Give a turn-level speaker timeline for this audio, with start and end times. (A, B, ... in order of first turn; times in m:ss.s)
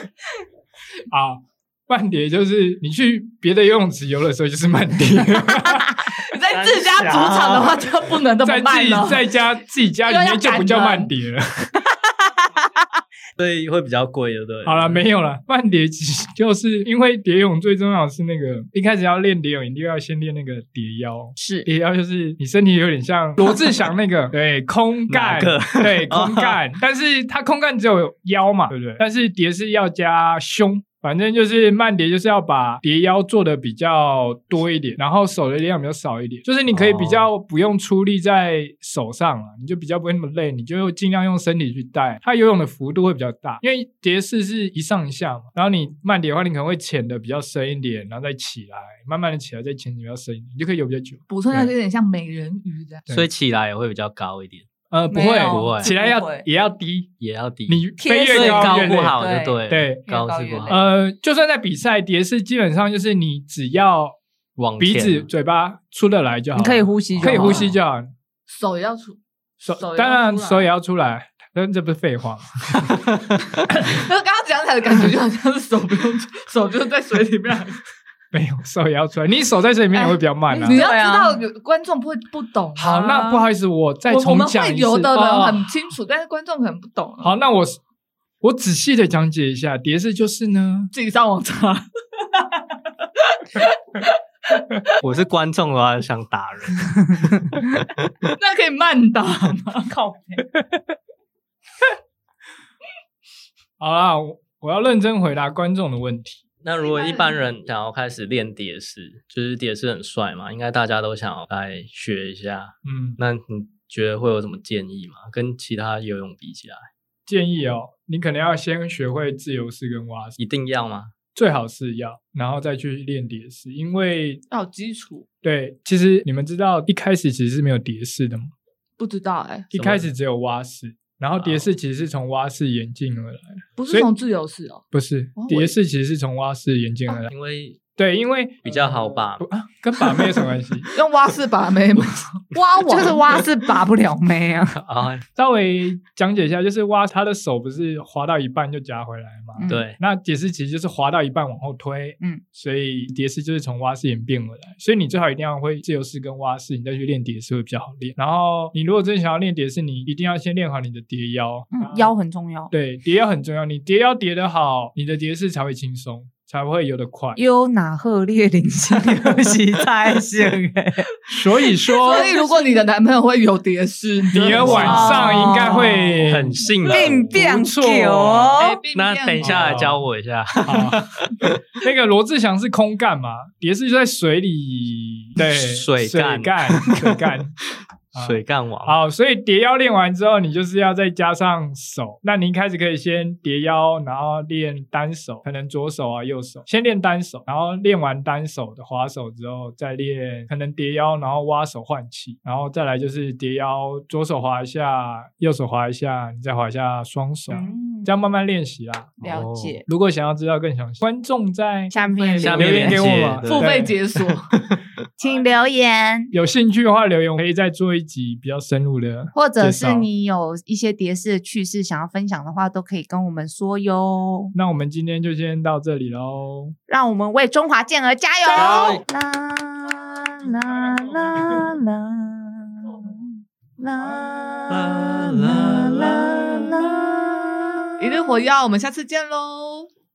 0:01.1-0:06.2 A
0:06.2-0:09.2 B
0:06.5-0:07.9 C
0:08.4-0:11.7 A
0:10.0-0:11.1 B
0:13.4-0:15.0 C
0:14.6-0:51.7 A
0:21.4-0:21.7 D
0:25.1-0:26.6 C
0:36.7-0:37.3 C
0:51.3-0:53.0 B
0:53.1-0:54.6 C
0:54.9-0:57.1 A
0:55.1-0:56.4 D
0:55.4-0:55.9 C
0:57.2-1:00.9 C
0:57.7-1:00.0 A
0:58.0-1:00.8 D
1:00.7-1:04.2 A
1:04.6-1:05.2 C
1:04.8-1:08.1 A
1:06.5-1:07.7 D
1:07.1-1:07.7 C
1:08.5-1:10.7 B
1:09.6-1:13.0 A
1:12.9-1:13.4 C
1:13.8-1:17.8 B
1:18.3-1:20.9 A
1:19.9-1:23.4 B
1:20.5-1:21.4 D
1:22.8-1:25.7 A
1:24.1-1:27.3 B
1:27.2-1:27.8 A
1:28.4-1:30.9 A
1:30.9-1:32.6 B
1:33.2-1:35.0 B
1:35.0-1:38.3 C
1:38.4-1:39.9 B
1:39.9-1:40.4 D
1:43.8-1:46.4 A
1:46.6-1:56.8 C
1:46.8-1:47.3 B
1:52.8-1:53.2 A
1:57.3-2:00.4 A
2:00.4-2:01.1 C
2:01.3-2:04.4 A
2:04.5-2:05.3 B
2:05.4-2:08.5 A
2:09.0-2:09.7 B
2:09.7-2:14.1 A
2:09.7-2:10.1 C
2:11.4-2:11.7 C
2:13.8-2:14.8 B
2:14.9-2:17.3 A
2:15.4-2:15.7 B
2:17.3-2:17.8 C
2:18.0-2:20.9 A
2:18.6-2:19.4 C
2:20.9-2:23.4 B
2:22.9-2:24.8 D
2:24.8-2:25.2 C
2:25.4-2:42.1 A
2:29.6-2:29.8 D
2:29.7-2:30.0 C
2:41.7-2:42.7 D
2:42.7-2:47.4 A
2:47.4-2:51.1 D
2:51.3-2:52.3 A
2:52.0-2:52.7 D
2:52.0-2:55.7 B
2:54.3-2:56.6 A
2:54.5-2:55.2 C
2:54.7-2:56.2 D
2:56.2-2:57.6 C
2:56.9-2:58.8 D
2:57.3-2:58.6 A
2:58.2-3:01.6 C
2:58.6-2:59.9 B
2:59.4-3:00.0 A
3:00.6-3:01.0 A
3:01.8-3:07.5 A
3:05.4-3:07.2 C
3:08.1-3:29.2 A
3:08.2-3:08.9 C
3:27.5-3:28.1 D
3:29.2-3:29.8 D
3:29.2-3:29.8 C
3:29.8-3:31.9 A
3:31.9-3:33.0 D
3:32.1-3:32.6 B
3:32.4-3:33.8 C
3:32.5-3:33.9 A
3:33.5-3:34.5 B
3:35.2-3:36.3 D
3:36.3-3:40.1 A
3:39.3-3:44.5 D
3:44.5-3:46.8 A
3:46.9-3:58.2 D
3:48.5-3:49.0 B
3:48.6-3:49.0 C
3:54.7-3:56.6 C
3:58.0-3:59.9 B